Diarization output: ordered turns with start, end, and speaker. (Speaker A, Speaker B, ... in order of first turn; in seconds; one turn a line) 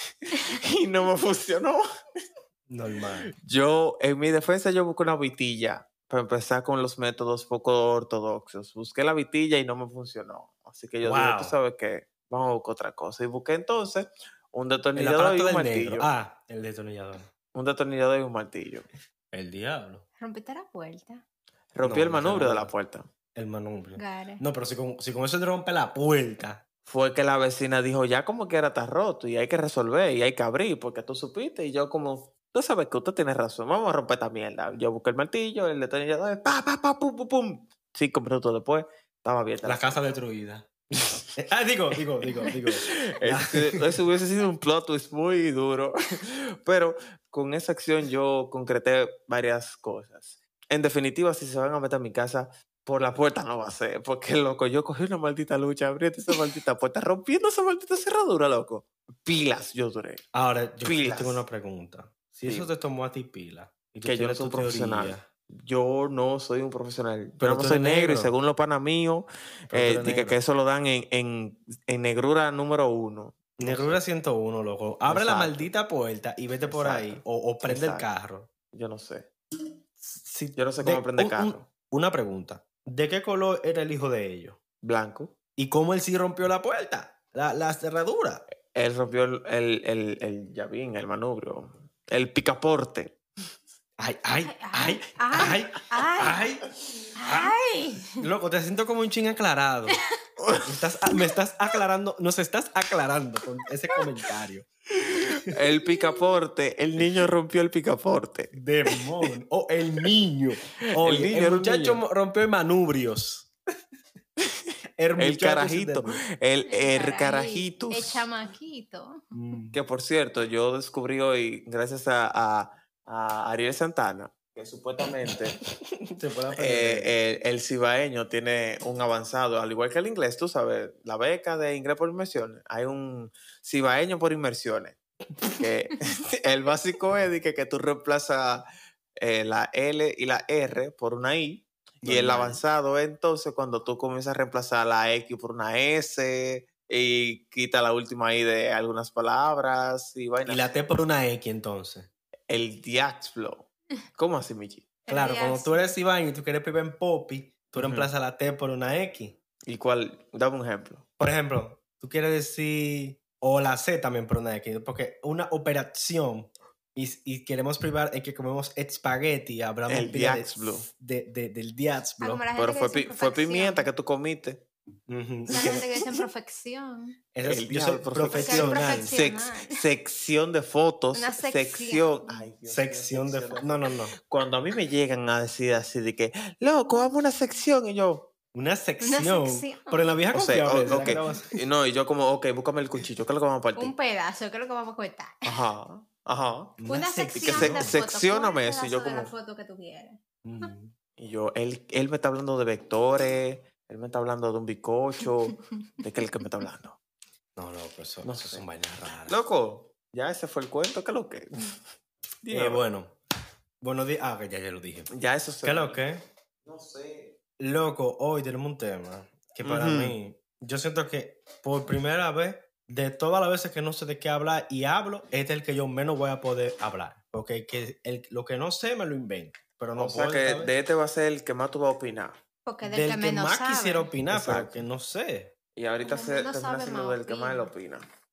Speaker A: 0.3-1.8
Speaker B: 2.7-3.3
Speaker A: 3.4-16.1
Speaker B: 11.0-11.6
Speaker B: 14.9-17.3
Speaker A: 17.5-18.9
Speaker B: 19.3-20.1
Speaker C: 20.2-21.2
Speaker A: 21.7-23.1
Speaker B: 21.8-22.7
Speaker B: 23.4-26.6
Speaker C: 24.0-24.4
Speaker A: 26.9-40.1
Speaker B: 39.6-40.7
Speaker B: 41.3-43.9
Speaker A: 42.4-60.2
Speaker B: 60.3-65.2
Speaker A: 60.8-61.5
Speaker A: 64.0-74.0
Speaker B: 67.4-68.3
Speaker B: 69.7-70.4
Speaker B: 73.6-78.5
Speaker A: 75.1-75.7
Speaker A: 76.7-78.1
Speaker A: 78.7-79.3
Speaker A: 80.0-81.5
Speaker B: 80.8-84.6
Speaker A: 84.8-85.4
Speaker B: 85.6-88.4
Speaker A: 88.7-93.2
Speaker B: 94.0-96.7
Speaker C: 94.4-96.5
Speaker C: 97.2-98.2
Speaker B: 97.2-97.5
Speaker B: 98.2-100.0
Speaker A: 100.4-100.7
Speaker B: 100.7-105.5
Speaker A: 105.1-108.5
Speaker B: 108.5-113.5
Speaker A: 110.9-112.0
Speaker A: 114.4-118.3
Speaker B: 115.0-116.2
Speaker C: 116.7-119.3
Speaker B: 119.3-119.8
Speaker A: 119.7-125.6
Speaker B: 126.1-127.1
Speaker A: 126.6-138.7
Speaker A: 139.2-150.7
Speaker B: 142.0-142.6
Speaker B: 150.5-152.1
Speaker A: 152.5-154.9
Speaker C: 155.1-155.9
Speaker B: 155.1-159.4
Speaker A: 157.8-158.1
Speaker A: 159.7-161.0
Speaker B: 161.2-172.4
Speaker A: 169.9-170.9
Speaker C: 172.2-173.9
Speaker A: 172.6-174.7
Speaker B: 175.1-175.8
Speaker C: 175.5-177.2
Speaker B: 177.3-179.2
Speaker A: 177.4-188.3
Speaker C: 178.3-179.8
Speaker C: 181.1-182.4
Speaker B: 182.7-184.2
Speaker B: 188.5-191.5
Speaker C: 189.0-190.2
Speaker A: 190.3-193.9
Speaker C: 190.9-191.2
Speaker C: 193.8-195.6
Speaker A: 195.4-196.8
Speaker B: 196.8-198.0
Speaker C: 196.9-200.7
Speaker A: 197.4-199.3
Speaker B: 200.4-200.9
Speaker A: 201.2-207.0
Speaker B: 207.6-209.4
Speaker A: 208.2-208.7
Speaker A: 209.3-211.8
Speaker A: 212.4-212.8
Speaker B: 212.5-213.2
Speaker B: 213.8-215.1
Speaker A: 215.1-216.0
Speaker B: 215.6-216.2
Speaker A: 216.7-217.4
Speaker B: 217.6-230.7
Speaker A: 219.6-220.2
Speaker A: 230.0-232.4
Speaker C: 232.7-234.1
Speaker B: 232.8-235.5
Speaker A: 234.3-234.8
Speaker A: 235.8-238.1
Speaker C: 236.0-237.7